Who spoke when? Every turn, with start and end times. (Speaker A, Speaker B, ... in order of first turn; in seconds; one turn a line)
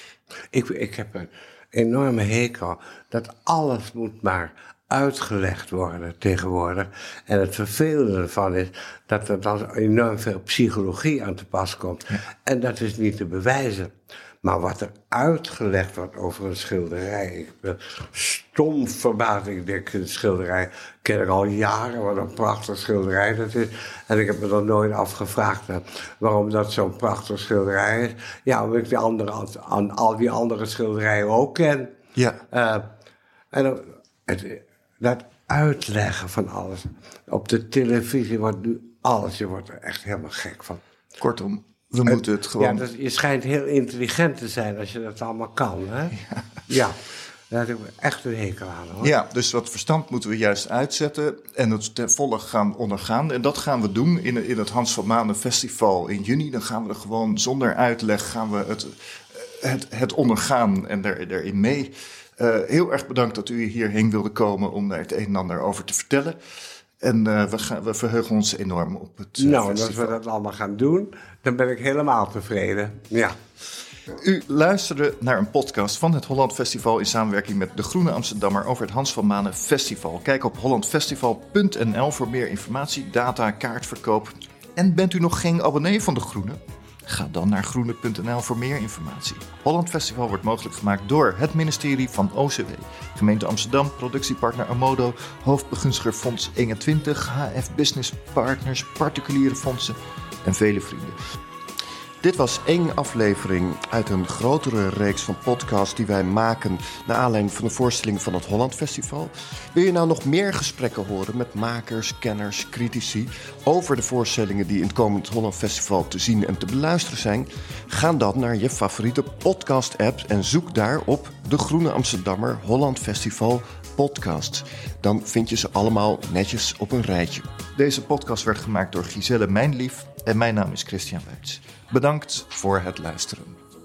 Speaker A: 0.5-31.9
Speaker B: 32.2-32.4
Speaker A: 32.5-32.9
Speaker A: 33.5-40.8
Speaker B: 41.2-42.8
Speaker A: 42.1-47.0
Speaker A: 47.5-49.1
Speaker B: 49.0-66.4
Speaker B: 67.0-70.2
Speaker A: 69.4-73.4
Speaker B: 74.1-101.2
Speaker C: 102.2-127.6
Speaker B: 127.6-133.6